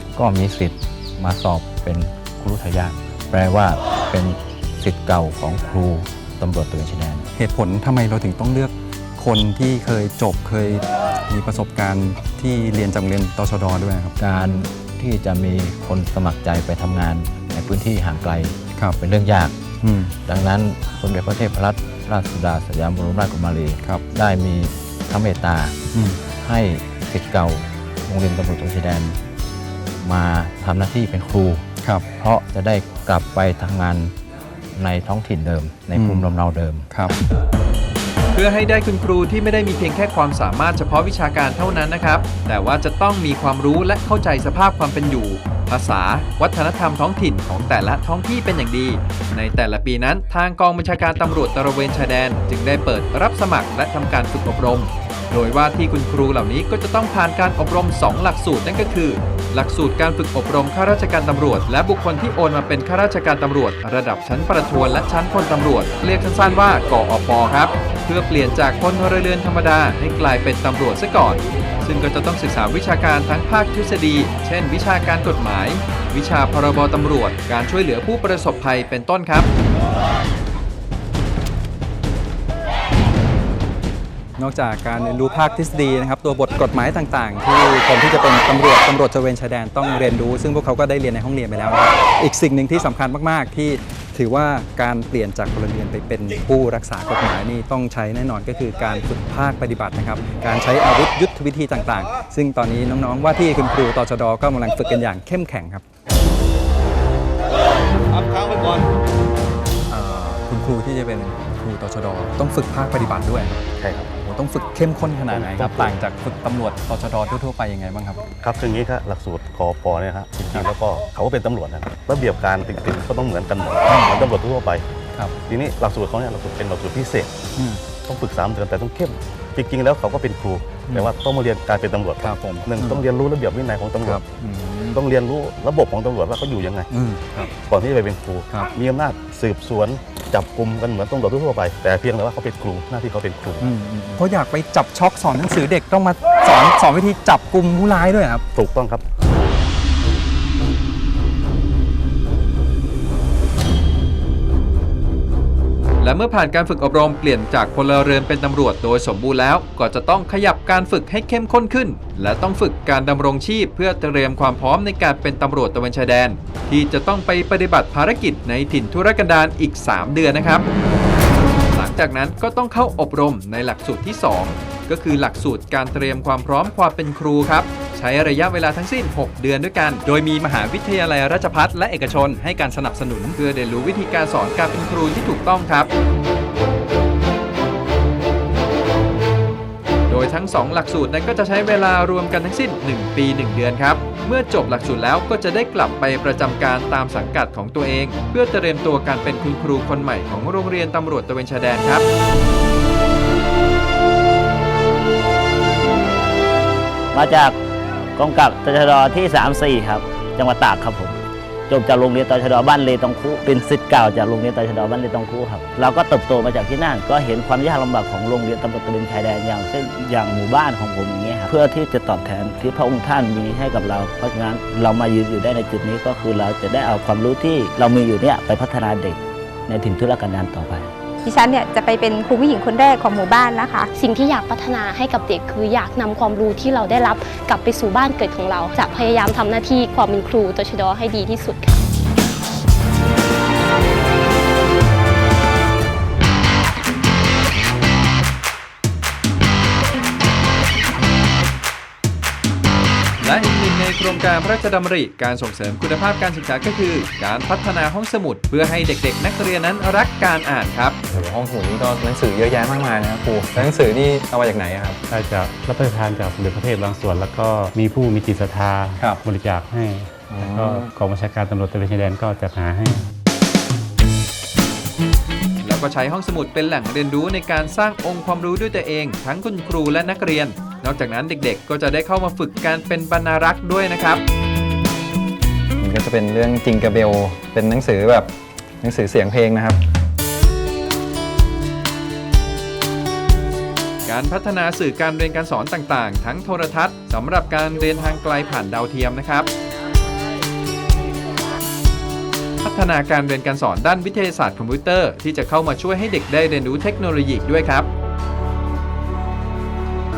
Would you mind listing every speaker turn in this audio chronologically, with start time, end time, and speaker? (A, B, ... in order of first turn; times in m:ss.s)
0:00.2-0:07.3 A
0:07.4-0:14.2 B
0:14.2-0:19.6 A
0:18.8-0:19.0 B
0:19.8-0:20.2 B
0:20.2-0:29.2 A
0:25.9-0:26.2 B
0:30.0-0:34.1 A
0:34.7-0:37.2 A
0:36.0-0:36.3 B
0:36.9-0:37.2 B
0:38.3-1:19.5 C
1:24.4-1:45.8 B
1:48.3-1:48.8 D
1:49.9-1:53.6 B
1:53.8-1:54.1 D
1:54.2-1:58.2 B
1:55.3-1:55.9 D
1:58.4-2:04.8 D
2:03.9-2:04.3 B
2:05.5-2:07.3 D
2:07.6-2:07.8 B
2:08.0-2:14.2 D
2:12.2-2:13.1 B
2:14.0-2:15.0 B
2:14.9-2:16.9 D
2:16.9-2:17.5 B
2:17.7-2:23.7 D
2:23.6-2:28.4 B
2:28.6-2:29.0 D
2:36.0-2:50.6 C
2:51.4-3:05.9 C
3:10.1-3:22.1 C
3:27.1-3:27.6 E
3:28.2-3:31.2 E
3:31.7-3:50.9 E
3:51.2-3:53.9 F
3:53.9-4:01.8 G
4:13.2-4:21.0 C
4:21.1-4:25.0 B
4:25.1-4:33.0 H
4:29.0-4:29.2 B
4:30.3-4:30.9 B
4:35.6-4:44.2 C
4:45.8-4:49.8 B
4:54.0-4:59.5 C
5:02.6-5:07.9 C